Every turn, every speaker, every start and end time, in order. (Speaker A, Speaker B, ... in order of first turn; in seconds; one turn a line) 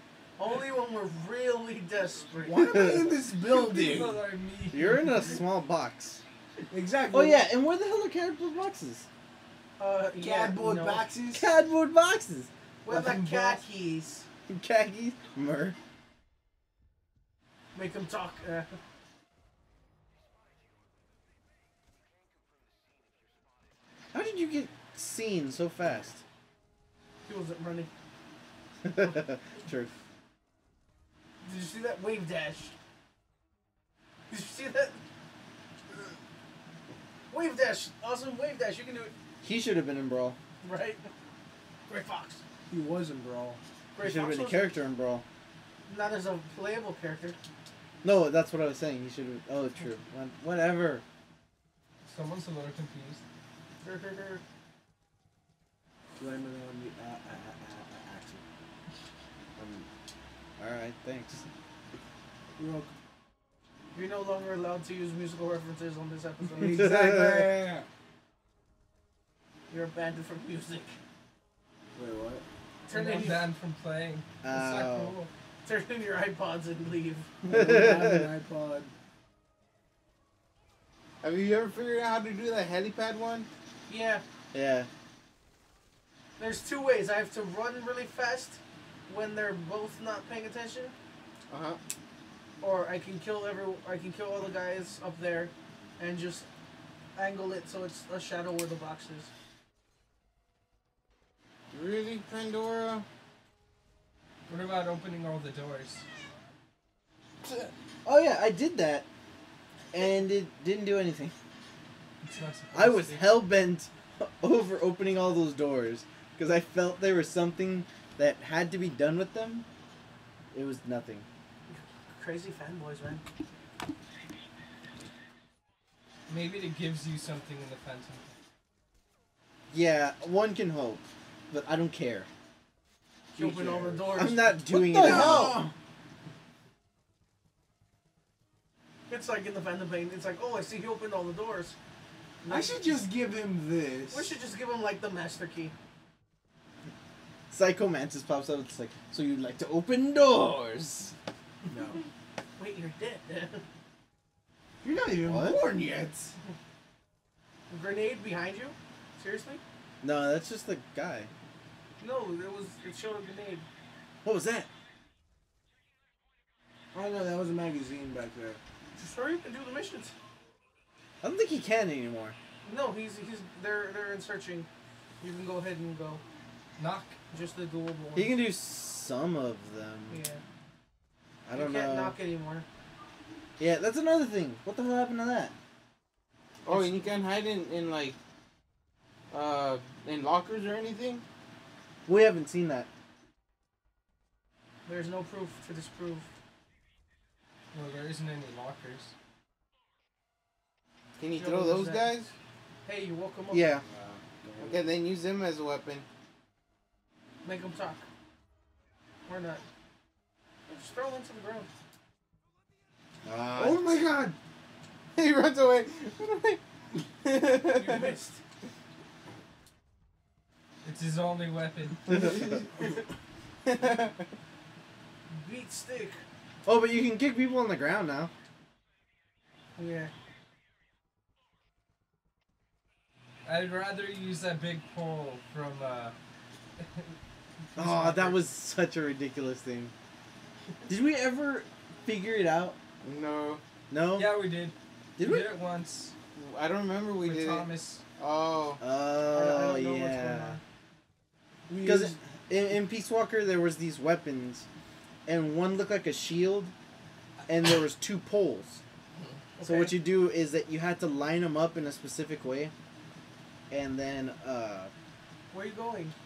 Speaker A: 0.4-2.7
Speaker B: 2.5-4.2
Speaker C: 2.6-3.1
Speaker D: 3.5-5.4
Speaker C: 4.7-6.2
Speaker B: 6.7-7.4
Speaker C: 7.1-9.1
Speaker A: 9.8-11.1
Speaker B: 10.2-11.5
Speaker C: 11.3-12.5
Speaker A: 12.8-14.3
Speaker B: 12.9-13.6
Speaker C: 14.5-15.8
Speaker A: 17.7-18.8
Speaker C: 24.1-26.2
Speaker A: 27.3-27.9
Speaker C: 28.8-29.9
Speaker A: 31.4-32.7
Speaker A: 34.3-35.0
Speaker A: 37.3-39.1
Speaker C: 39.4-40.4
Speaker A: 40.6-41.1
Speaker A: 41.9-42.4
Speaker B: 42.7-43.6
Speaker A: 44.0-44.7
Speaker C: 44.0-45.2
Speaker A: 45.9-47.4
Speaker C: 48.0-51.0
Speaker D: 52.1-53.2
Speaker A: 53.8-54.4
Speaker B: 56.2-58.4
Speaker C: 59.6-59.9
Speaker C: 60.6-61.5
Speaker B: 62.6-62.9
Speaker A: 63.9-66.9
Speaker B: 66.5-67.9
Speaker C: 66.7-67.5
Speaker A: 69.7-71.0
Speaker B: 72.0-72.4
Speaker A: 72.9-73.5
Speaker D: 72.9-75.3
Speaker C: 74.4-75.2
Speaker A: 75.7-77.3
Speaker B: 77.4-78.9
Speaker C: 77.5-78.3
Speaker E: 81.2-83.5
Speaker A: 83.9-84.2
Speaker C: 84.5-84.9
Speaker A: 86.4-90.9
Speaker E: 91.5-91.8
Speaker A: 92.6-96.5
Speaker A: 97.2-99.3
Speaker E: 101.7-103.0
Speaker D: 104.5-106.0
Speaker C: 108.0-109.1
Speaker C: 109.9-111.3
Speaker D: 112.2-113.5
Speaker C: 112.7-119.7
Speaker C: 120.5-121.3
Speaker A: 121.7-123.2
Speaker D: 126.3-128.3
Speaker C: 129.7-132.3
Speaker A: 133.3-134.6
Speaker B: 133.4-134.2
Speaker C: 134.2-135.6
Speaker B: 134.7-135.7
Speaker E: 135.0-135.3
Speaker A: 135.1-135.4
Speaker A: 139.1-141.8
Speaker B: 142.4-144.3
Speaker A: 142.4-142.9
Speaker A: 144.1-145.7
Speaker C: 147.5-151.1
Speaker B: 151.7-152.0
Speaker A: 152.6-153.6
Speaker B: 154.8-156.3
Speaker C: 155.2-155.6
Speaker A: 157.7-159.6
Speaker C: 160.0-161.3
Speaker A: 162.0-163.7
Speaker C: 164.2-164.7
Speaker B: 166.9-168.6
Speaker A: 169.0-170.1
Speaker C: 171.2-172.4
Speaker A: 172.6-174.7
Speaker A: 175.2-176.2
Speaker D: 176.8-177.2
Speaker A: 177.3-178.3
Speaker C: 178.2-180.2
Speaker A: 180.1-180.4
Speaker C: 181.5-182.2
Speaker A: 181.6-182.7
Speaker C: 183.6-185.5
Speaker E: 186.7-188.2
Speaker E: 189.3-191.2
Speaker C: 192.1-192.9
Speaker A: 194.9-196.3
Speaker D: 197.7-199.1
Speaker E: 201.2-202.3
Speaker A: 201.4-202.2
Speaker A: 202.8-203.7
Speaker C: 203.5-203.8
Speaker B: 203.9-204.8
Speaker E: 204.6-206.1
Speaker A: 207.4-208.1
Speaker A: 209.3-209.6
Speaker A: 210.7-211.7
Speaker C: 213.2-213.8
Speaker B: 213.6-214.3
Speaker E: 215.2-218.1
Speaker A: 217.7-218.4
Speaker D: 220.8-222.2
Speaker E: 222.1-222.4
Speaker E: 223.7-224.1
Speaker A: 225.3-226.2
Speaker C: 226.7-228.3
Speaker A: 229.8-230.1
Speaker D: 233.4-236.1
Speaker D: 236.8-237.1
Speaker D: 237.7-238.4
Speaker C: 237.8-239.9
Speaker C: 240.9-242.8
Speaker E: 243.0-243.6
Speaker C: 243.9-244.3
Speaker D: 244.1-246.1
Speaker C: 245.2-245.5
Speaker E: 246.3-248.8
Speaker D: 247.2-248.0
Speaker C: 248.8-250.6
Speaker A: 249.3-250.6
Speaker B: 251.7-252.2
Speaker C: 251.8-254.7
Speaker C: 255.3-256.7
Speaker C: 257.5-258.8
Speaker A: 259.6-260.0
Speaker C: 259.6-262.7
Speaker C: 263.7-264.9
Speaker A: 265.5-266.1